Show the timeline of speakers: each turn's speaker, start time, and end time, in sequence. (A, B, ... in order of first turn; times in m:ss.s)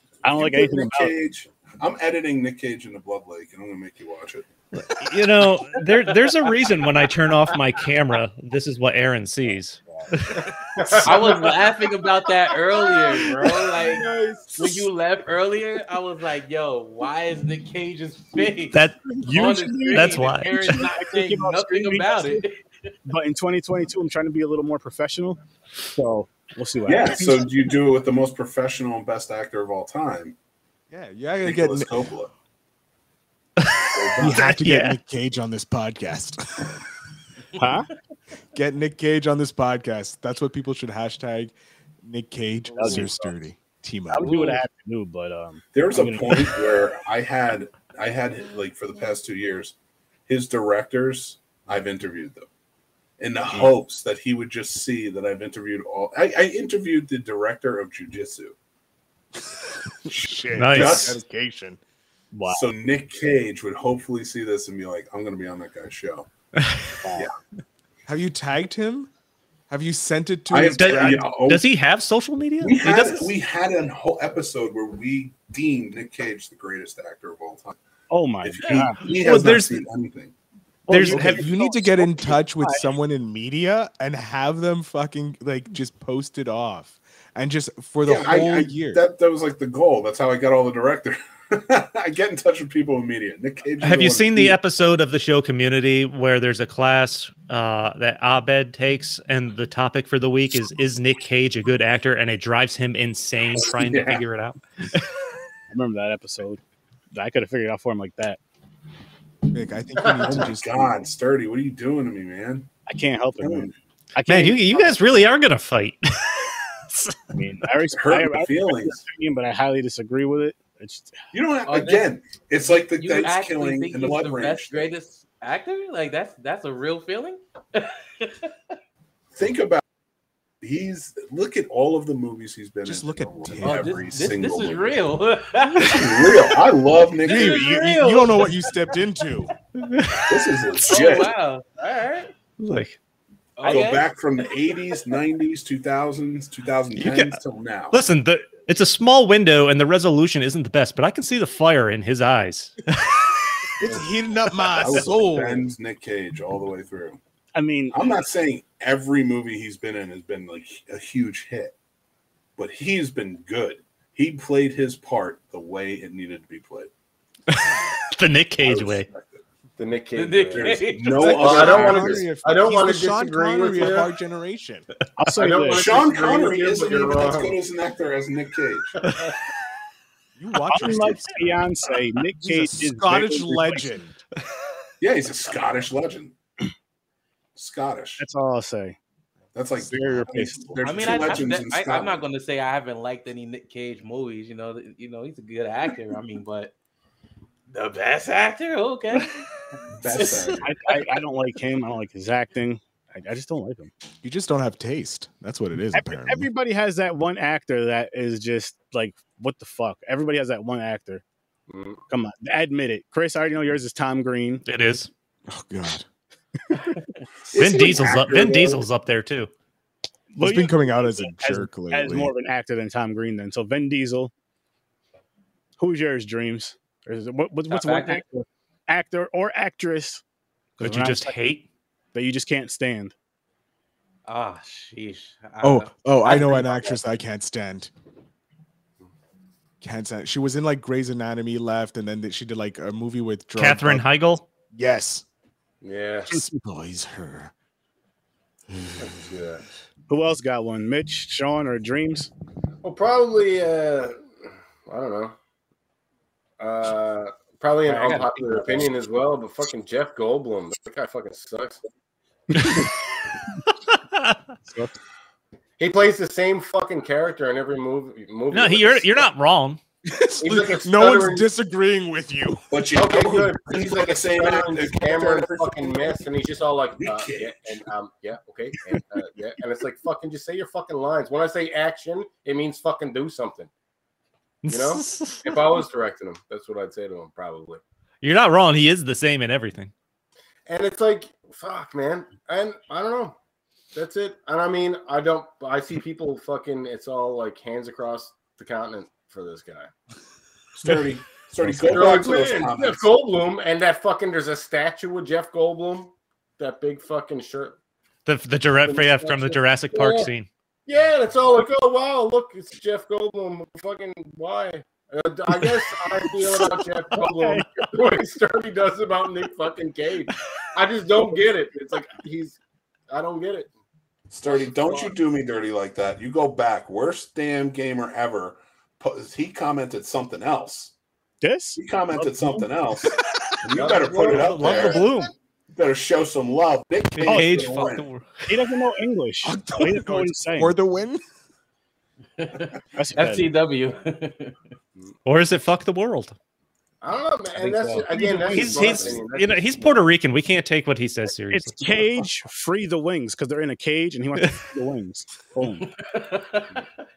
0:00.2-0:01.2 A
0:00.3-0:04.5 B
0:04.8-0:11.4 C
0:05.9-0:06.7 D
0:09.9-0:11.8 E
0:11.0-0:22.9 D
0:13.2-0:14.8 E
0:18.7-0:19.1 C
0:19.2-0:22.4 A
0:19.9-0:20.8 C
0:23.1-0:27.6 A
0:26.9-0:30.4 B
0:30.9-0:32.0 F
0:31.4-0:32.3 B
0:33.6-0:35.0 C
0:33.9-0:34.5 B
0:34.2-0:36.7 F
0:37.6-0:37.9 A
0:38.6-0:44.4 F
0:42.7-0:43.1 D
0:42.8-0:43.3 A
0:44.1-0:46.5 A
0:44.2-0:44.6 D
0:45.7-0:49.8 B
0:50.3-0:52.5 B
0:53.2-0:58.6 B
1:00.0-1:01.8 F
1:00.2-1:01.2 B
1:00.6-1:01.2 C
1:02.3-1:02.6 A
1:02.5-1:06.3 B
1:06.6-1:06.9 C
1:07.0-1:07.3 A
1:08.1-1:09.1 F
1:09.7-1:11.3 F
1:10.5-1:11.6 B
1:10.8-1:13.3 C
1:12.6-1:17.8 B
1:18.1-1:19.0 A
1:18.4-1:20.3 B
1:18.7-1:19.8 C
1:20.9-1:22.9 A
1:20.9-1:21.5 C
1:20.9-1:29.0 F
1:28.0-1:34.6 B
1:33.8-1:45.1 C
1:43.6-1:44.2 B
1:45.7-1:46.6 A
1:47.1-1:48.4 A
1:49.5-1:51.0 F
1:50.0-1:50.4 E
1:50.2-1:52.7 B
1:52.9-1:55.0 A
1:53.4-1:53.7 B
1:54.3-1:57.2 C
1:57.3-2:01.2 A
1:57.9-1:59.0 B
2:01.3-2:04.9 B
2:01.7-2:02.1 D
2:02.6-2:08.5 D
2:09.3-2:09.8 B
2:10.6-2:15.0 B
2:12.8-2:14.2 F
2:13.6-2:18.8 D
2:15.8-2:17.7 B
2:17.2-2:19.5 F
2:19.8-2:20.3 C
2:20.3-2:21.4 B
2:20.8-2:22.3 D
2:22.6-2:23.0 C
2:23.6-2:24.2 D
2:23.6-2:28.0 B
2:27.0-2:27.4 C
2:27.9-2:33.3 C
2:33.8-2:35.7 F
2:34.7-2:37.2 B
2:37.6-2:38.0 A
2:37.9-2:41.7 B
2:42.6-2:46.9 B
2:47.5-2:49.1 C
2:47.6-2:47.9 F
2:48.6-2:49.4 B
2:49.8-2:54.1 E
2:50.2-2:51.8 D
2:50.5-2:52.3 B
2:51.2-2:54.9 F
2:55.2-2:55.9 A
2:55.4-2:57.6 E
2:55.8-2:59.0 B
3:00.4-3:01.6 F
3:00.7-3:03.9 A
3:02.4-3:04.2 F
3:05.0-3:06.3 B
3:07.6-3:08.2 B
3:08.2-3:09.0 A
3:09.5-3:12.2 B
3:09.8-3:11.5 A
3:10.8-3:16.7 D
3:17.7-3:19.4 D
3:20.0-3:20.7 B
3:20.1-3:20.6 D
3:20.6-3:23.9 A
3:24.2-3:26.5 F
3:25.9-3:31.2 A
3:31.7-3:32.0 E
3:32.1-3:34.6 A
3:34.6-3:35.1 C
3:35.5-3:36.1 F
3:37.5-3:38.8 B
3:37.5-3:39.5 C
3:40.3-3:44.3 A
3:40.4-3:42.3 F
3:45.8-3:50.2 A
3:47.7-3:48.2 D
3:50.8-3:51.4 A
3:50.8-3:51.7 C
3:52.1-3:53.1 A
3:54.3-3:57.0 D
3:55.6-3:57.9 F
3:59.8-4:04.1 F
4:03.6-4:04.4 C
4:04.7-4:05.2 F
4:05.8-4:06.5 E
4:06.3-4:07.5 F
4:08.8-4:09.1 F
4:09.0-4:09.6 E
4:10.1-4:12.3 A
4:12.8-4:14.2 E
4:14.9-4:15.4 E
4:16.6-4:21.8 E
4:17.9-4:18.9 D
4:22.5-4:22.9 A
4:23.9-4:24.4 C
4:24.7-4:24.9 A
4:25.8-4:29.2 E
4:28.5-4:29.8 C
4:30.0-4:32.6 F
4:30.4-4:31.5 E
4:32.7-4:36.2 B
4:32.9-4:43.7 E
4:37.0-4:37.8 B
4:44.6-4:45.8 C
4:44.7-4:47.8 E
4:48.2-4:49.9 C
4:50.7-4:53.4 E
4:53.9-4:59.9 E
5:00.8-5:03.1 B
5:01.9-5:07.8 E
5:08.3-5:10.5 C
5:08.8-5:10.3 E
5:10.9-5:22.6 E
5:16.6-5:17.9 A
5:23.1-5:23.7 E
5:24.3-5:30.9 B
5:31.4-5:32.7 A
5:31.8-5:35.1 B
5:33.7-5:35.0 E
5:34.3-5:35.3 C
5:35.8-5:38.1 B
5:37.2-5:38.5 C
5:37.2-5:37.6 A
5:38.5-5:40.7 A
5:39.4-5:41.2 F
5:42.4-5:44.6 D
5:43.0-5:43.5 A
5:45.3-5:46.4 C
5:47.0-5:50.0 E
5:47.6-5:49.2 D
5:48.1-5:49.0 A
5:48.5-5:51.8 C
5:51.5-5:55.9 A
5:55.6-5:56.8 D